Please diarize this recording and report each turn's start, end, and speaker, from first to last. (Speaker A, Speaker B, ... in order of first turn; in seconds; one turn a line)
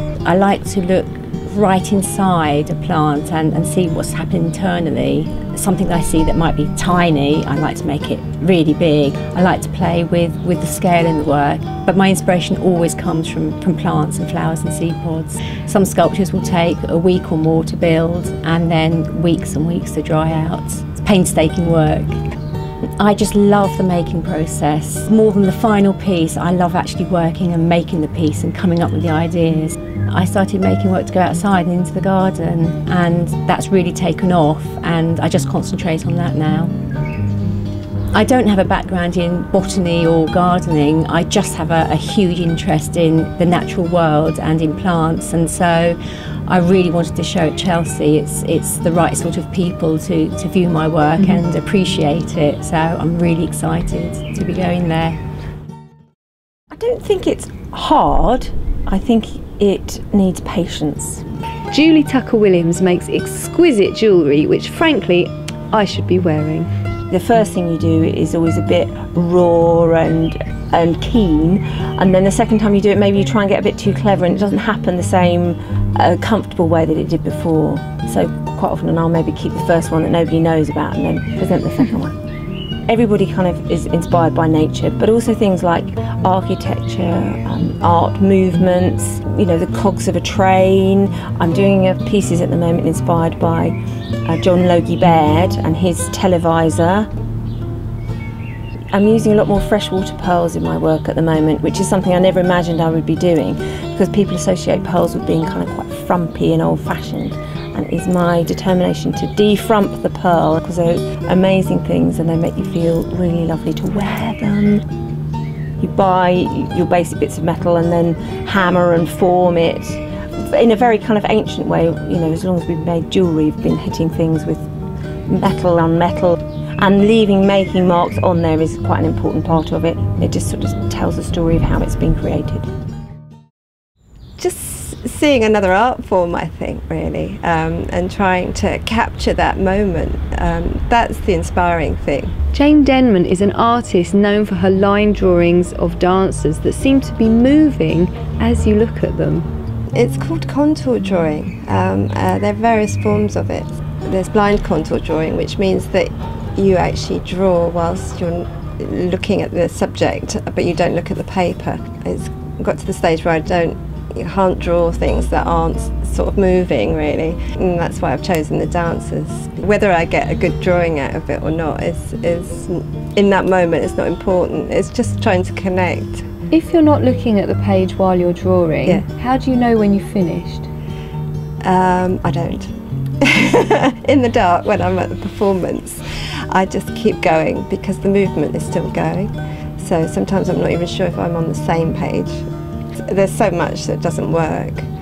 Speaker A: 0.2-22.1
Speaker A: 23.0-36.7
Speaker A: 38.1-46.0
Speaker A: 46.5-55.2
Speaker B: 56.7-61.2
Speaker C: 61.7-66.7
Speaker B: 67.1-82.2
Speaker B: 82.9-97.1
Speaker B: 98.9-114.8
Speaker B: 115.8-124.7
Speaker B: 125.3-132.7
Speaker D: 134.4-142.3
Speaker C: 142.5-149.5
Speaker D: 149.9-176.3
Speaker C: 176.5-180.7
Speaker D: 181.6-192.5
Speaker D: 193.0-194.9